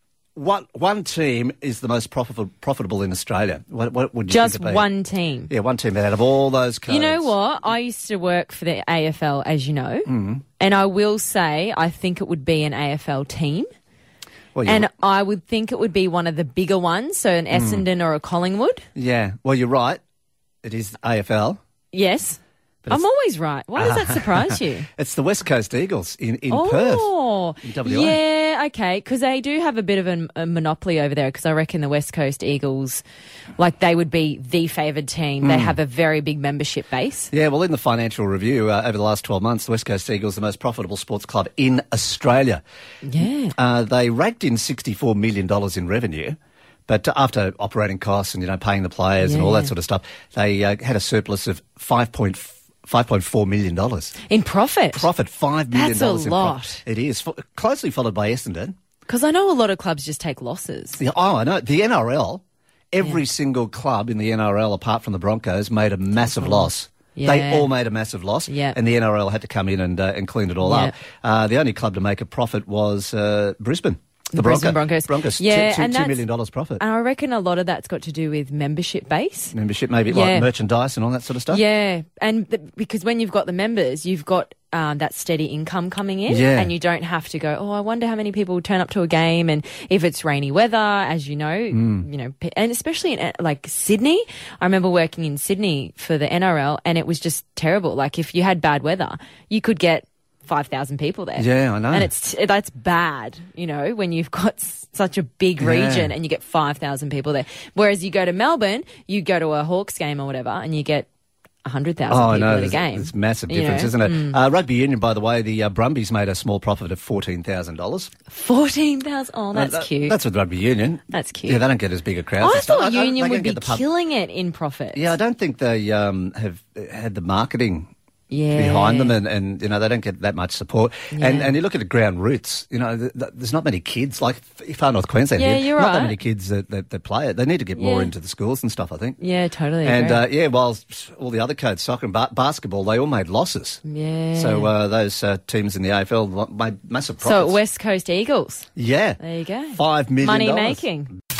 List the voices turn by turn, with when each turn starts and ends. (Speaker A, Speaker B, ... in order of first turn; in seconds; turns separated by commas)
Speaker A: 0.3-4.9, Speaker B: 4.3-5.5, Speaker A: 5.5-7.3, Speaker B: 6.9-13.7, Speaker A: 10.1-10.4, Speaker A: 14.5-14.9, Speaker B: 14.6-18.8, Speaker A: 17.5-17.8, Speaker A: 18.9-20.0, Speaker A: 20.6-21.6, Speaker B: 21.9-24.9, Speaker A: 23.8-27.1, Speaker B: 26.5-33.0, Speaker A: 27.6-28.2, Speaker B: 33.6-37.3, Speaker A: 35.4-35.8, Speaker A: 37.3-42.6, Speaker B: 43.0-43.5, Speaker A: 43.5-46.4, Speaker A: 46.9-54.1, Speaker B: 49.2-49.7, Speaker B: 54.3-55.1, Speaker A: 54.9-58.7, Speaker B: 55.7-56.8, Speaker B: 59.1-61.0, Speaker A: 61.0-76.8, Speaker B: 66.4-67.7, Speaker B: 68.5-68.8, Speaker B: 70.6-70.9, Speaker B: 74.3-76.2, Speaker B: 76.8-79.5, Speaker A: 79.5-81.6, Speaker B: 80.1-80.5, Speaker B: 81.5-111.1, Speaker A: 86.3-86.7, Speaker A: 91.7-92.1, Speaker A: 101.4-102.1, Speaker A: 105.6-106.1, Speaker B: 111.6-114.4, Speaker A: 112.1-118.1, Speaker B: 118.3-120.2, Speaker A: 119.5-123.8, Speaker B: 121.1-121.6, Speaker B: 122.4-125.1, Speaker A: 124.9-127.9, Speaker B: 128.3-129.2, Speaker A: 128.5-139.2, Speaker B: 131.1-131.5, Speaker B: 135.3-136.2, Speaker B: 137.8-138.1, Speaker B: 139.2-140.2, Speaker A: 139.8-143.8, Speaker B: 143.8-144.7, Speaker A: 144.3-147.6, Speaker B: 147.2-148.7, Speaker A: 148.8-149.2, Speaker B: 149.2-151.1, Speaker A: 149.7-150.8